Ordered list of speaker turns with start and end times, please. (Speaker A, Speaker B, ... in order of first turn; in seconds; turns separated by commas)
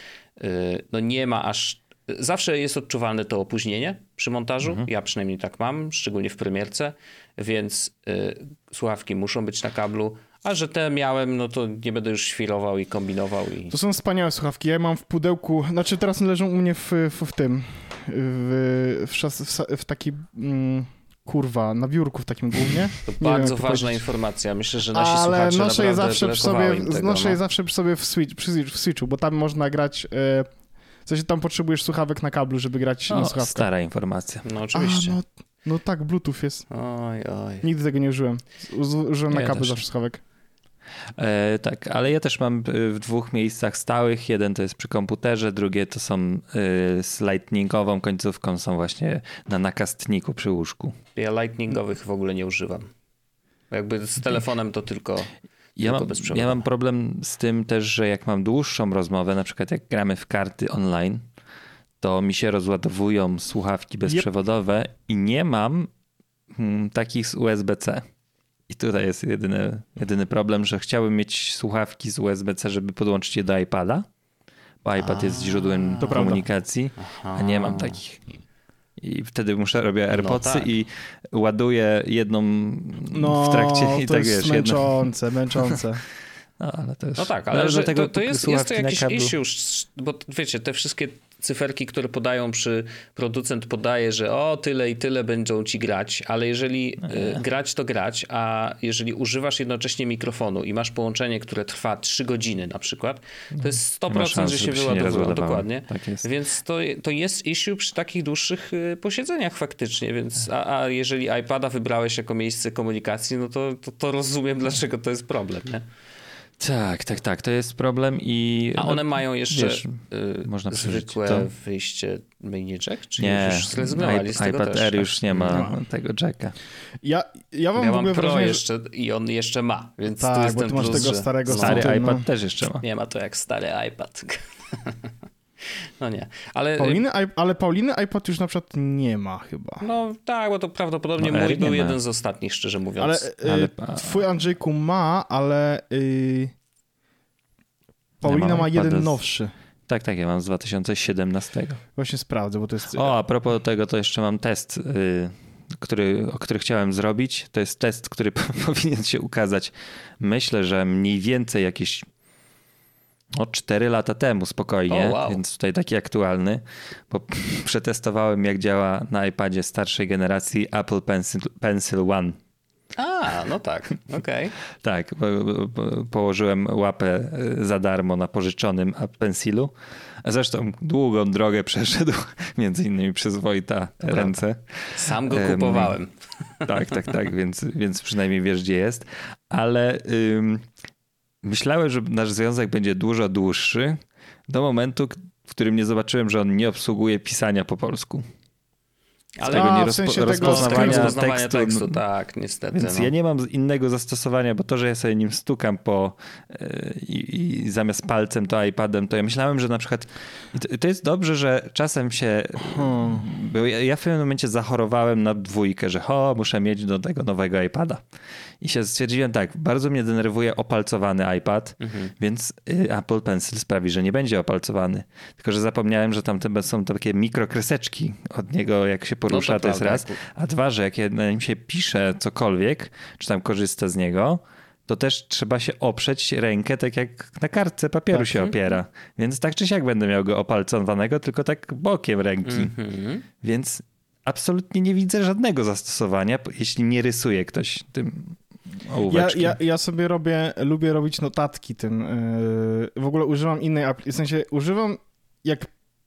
Speaker A: 0.4-13.7, Speaker B: 13.7-24.0, Speaker A: 23.1-27.4, Speaker B: 24.9-30.5, Speaker B: 31.1-33.7, Speaker C: 33.1-34.4, Speaker A: 34.4-35.2, Speaker B: 34.7-36.6, Speaker A: 36.7-37.7, Speaker B: 37.6-40.2, Speaker C: 39.3-39.8, Speaker C: 41.2-51.0, Speaker A: 51.1-52.9, Speaker A: 53.7-56.6, Speaker C: 55.8-61.2, Speaker C: 62.0-65.9, Speaker C: 66.5-68.0, Speaker C: 68.7-74.0, Speaker C: 74.8-78.2, Speaker A: 75.0-76.4, Speaker B: 76.0-76.5, Speaker A: 77.0-78.0, Speaker C: 79.0-84.9, Speaker A: 80.1-80.7, Speaker B: 83.1-86.0, Speaker C: 86.6-89.3, Speaker A: 87.2-115.8, Speaker C: 97.0-97.4, Speaker C: 103.5-106.2, Speaker C: 116.6-121.5, Speaker A: 118.8-125.6, Speaker C: 123.2-126.5, Speaker B: 125.5-125.8, Speaker B: 127.0-128.6, Speaker A: 127.8-131.8, Speaker B: 130.2-132.2, Speaker C: 131.5-132.8, Speaker A: 132.8-135.1, Speaker A: 136.0-137.0, Speaker B: 136.8-139.8, Speaker A: 139.8-143.3, Speaker C: 141.2-142.0, Speaker B: 143.0-146.5, Speaker C: 143.4-144.2, Speaker B: 148.2-149.5, Speaker C: 148.2-149.2, Speaker C: 149.9-151.8, Speaker B: 152.0-153.1, Speaker C: 152.9-162.1, Speaker C: 163.3-172.4, Speaker A: 164.9-165.4, Speaker A: 173.0-174.5, Speaker C: 174.8-185.9, Speaker A: 184.9-187.0, Speaker C: 186.7-190.6, Speaker C: 191.4-198.2, Speaker A: 199.3-203.1, Speaker C: 199.4-202.0, Speaker B: 199.5-201.2, Speaker C: 202.7-218.0, Speaker B: 212.8-213.2, Speaker C: 218.6-242.7, Speaker A: 221.8-222.1, Speaker A: 229.3-230.2, Speaker A: 242.4-243.2, Speaker C: 243.4-249.6, Speaker B: 249.1-255.7